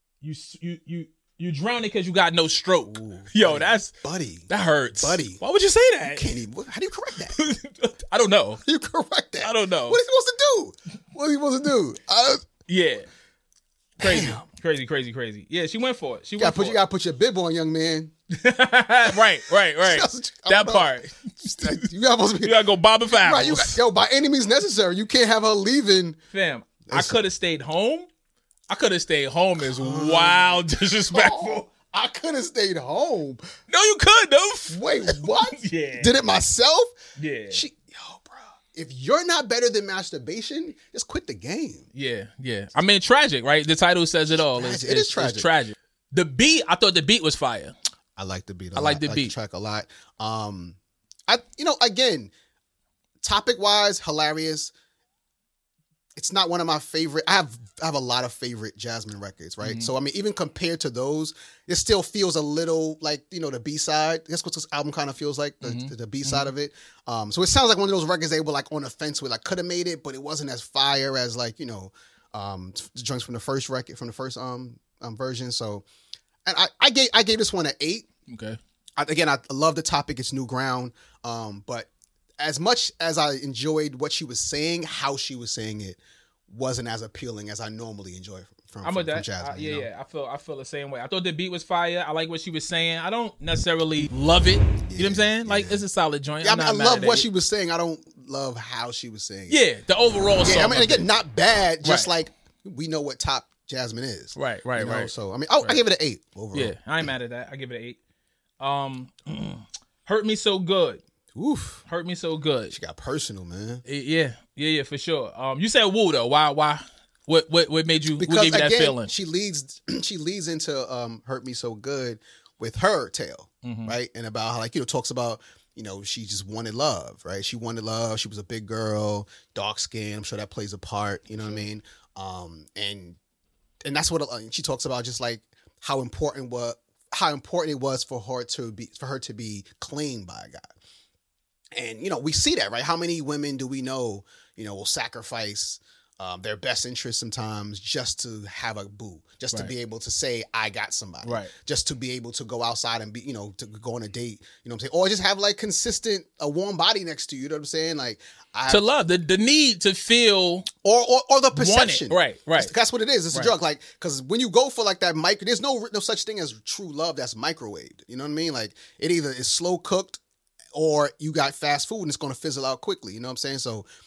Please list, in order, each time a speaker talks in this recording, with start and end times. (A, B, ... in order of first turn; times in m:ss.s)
0:00.2-0:03.9 A
0:02.9-0:04.5 B
0:04.5-0:06.3 A
0:05.0-0:05.4 B
0:06.1-0:07.4 B
0:07.4-0:08.6 A
0:08.6-0:12.4 B
0:09.4-0:10.0 A
0:12.7-0:13.1 A
0:14.0-0:16.8 A
0:14.0-0:14.4 B
0:16.4-0:18.1 B
0:18.3-0:21.8 A
0:19.8-0:26.2 B
0:22.4-0:23.8 A
0:26.3-0:28.1 A
0:26.9-0:27.2 B
0:28.7-0:31.7 A
0:29.6-0:33.4 B
0:33.7-0:36.1 A
0:34.7-0:37.0 B
0:37.2-0:37.6 A
0:37.5-0:41.9 B
0:41.9-0:47.7 A
0:44.5-0:45.5 B
0:48.2-0:52.3 B
0:48.8-0:49.3 A
0:53.2-0:54.7 B
0:56.2-1:15.8 B
0:59.6-0:59.9 A
1:05.6-1:06.5 A
1:16.4-1:18.1 B
1:18.3-1:18.6 A
1:19.0-1:29.9 B
1:28.8-1:37.3 A
1:34.8-1:35.8 B
1:36.4-1:39.6 B
1:39.5-1:41.1 A
1:40.4-1:46.8 B
1:41.8-1:42.1 A
1:44.4-1:45.8 A
1:46.5-1:48.0 A
1:48.6-1:51.0 A
1:51.3-1:51.8 B
1:51.9-1:52.8 A
1:52.7-1:53.8 B
1:53.9-1:59.1 A
1:58.2-2:13.2 B
2:03.6-2:04.0 A
2:11.4-2:11.6 A
2:13.8-2:20.7 B
2:21.7-2:38.9 B
2:31.2-2:31.5 A
2:38.7-2:40.7 A
2:40.8-2:50.2 B
2:41.5-2:42.7 A
2:50.7-2:53.9 B